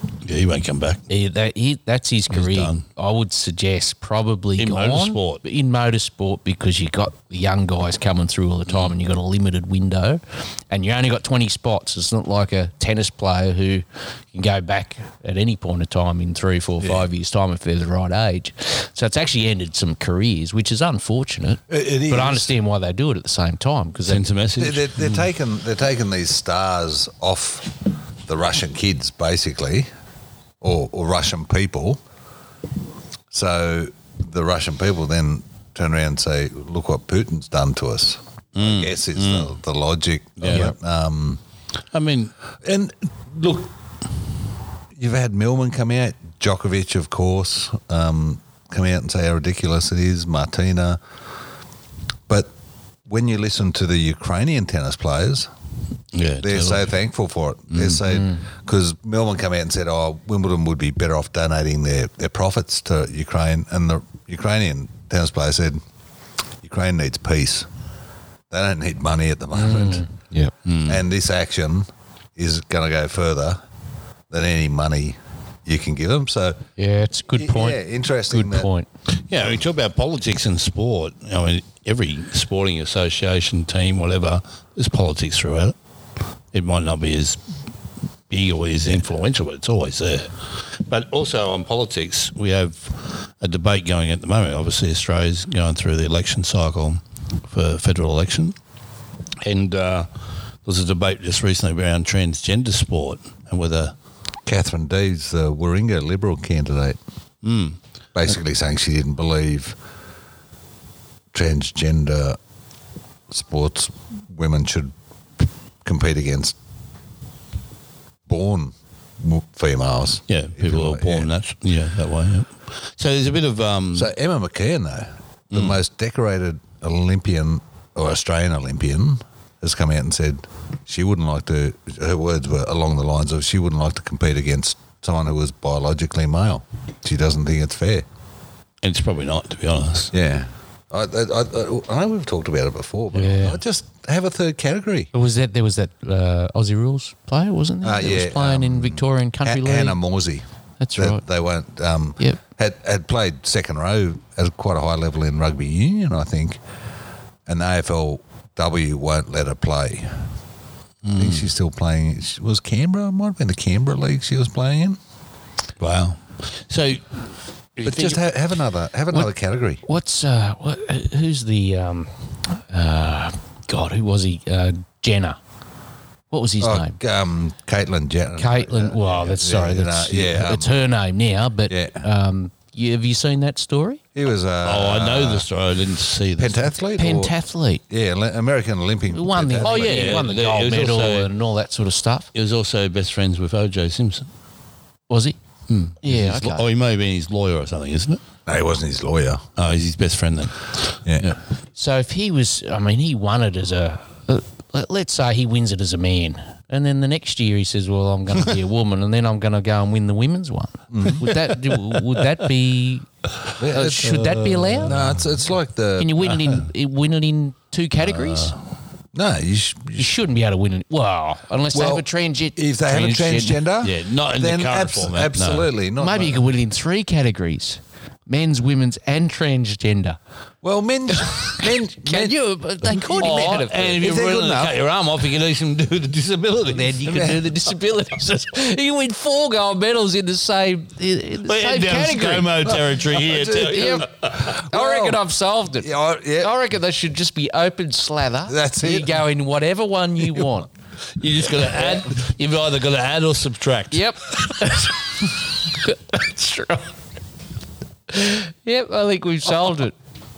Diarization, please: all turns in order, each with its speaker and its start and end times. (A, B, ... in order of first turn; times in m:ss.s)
0:00.2-0:01.0 A
0:01.1-0:24.2 B
0:02.3-0:02.8 A
0:04.6-0:05.4 A
0:16.8-0:17.0 C
0:21.7-0:22.5 C
0:24.0-0:25.2 A
0:24.6-0:29.9 C
0:30.6-0:32.0 C
0:33.3-0:41.4 C
0:38.5-0:39.5 A
0:40.4-0:40.7 A
0:41.9-0:42.3 A
0:42.6-0:43.7 C
0:45.0-0:51.0 C
0:53.1-0:55.5 C
0:56.1-0:56.9 A
0:56.4-1:05.8 C
0:57.7-0:58.0 A
0:58.1-0:58.4 B
1:06.6-1:07.7 C
1:08.5-1:10.1 C
1:09.5-1:10.5 B
1:10.6-1:11.0 A
1:10.8-1:13.6 C
1:14.3-1:16.6 C
1:16.8-1:18.9 B
1:17.4-1:18.7 C
1:19.1-1:25.7 A
1:26.5-1:27.4 A
1:28.3-1:38.6 A
1:39.4-1:40.1 A
1:40.6-1:43.9 A
1:44.4-1:47.0 C
1:47.4-1:47.8 A
1:48.1-1:49.8 C
1:51.3-1:52.4 C
1:53.3-1:56.5 C
1:58.3-2:01.3 C
2:00.3-2:04.1 A
2:03.9-2:18.0 C
2:18.8-2:20.1 A
2:20.1-2:25.1 C
2:23.1-2:23.6 B
2:25.1-2:30.0 B
2:27.8-2:30.4 C
2:30.8-2:31.2 B
2:31.0-2:36.6 C
2:37.4-2:40.3 C
2:41.0-2:41.5 A
2:41.2-2:45.0 C
2:45.8-2:48.2 A
2:47.8-2:49.8 C
2:49.8-2:55.4 B
2:56.3-2:57.0 B
2:56.6-3:00.8 C
2:58.4-3:04.0 B
3:01.7-3:02.0 C
3:04.1-3:05.5 C
3:04.6-3:06.7 A
3:06.4-3:07.3 C
3:07.0-3:07.8 B
3:07.9-3:10.2 C
3:09.1-3:12.3 B
3:09.6-3:11.3 A
3:12.3-3:14.2 A
3:15.1-3:15.4 B
3:15.7-3:18.2 A
3:16.0-3:16.6 B
3:18.4-3:19.4 C
3:19.6-3:21.4 A
3:21.0-3:21.3 C
3:21.8-3:33.1 B
3:30.9-3:31.2 C
3:33.6-3:34.0 C
3:33.7-3:35.0 B
3:33.9-3:35.2 A
3:34.8-3:36.2 C
3:36.0-3:38.5 B
3:38.0-3:38.6 A
3:39.1-3:40.1 C
3:40.0-3:43.6 B
3:41.7-3:46.4 C
3:43.8-3:45.7 A
3:46.0-3:50.2 B
3:50.6-3:52.4 C
3:51.1-3:54.0 B
3:52.9-3:54.8 C
3:53.0-3:57.0 A
3:56.7-4:02.6 B
3:57.0-3:57.5 C
4:01.4-4:04.3 A
4:02.6-4:05.2 C
4:03.6-4:10.7 B
4:05.8-4:06.5 C
4:08.5-4:09.2 C
4:11.2-4:14.0 A
4:13.9-4:16.9 B
4:18.1-4:19.9 B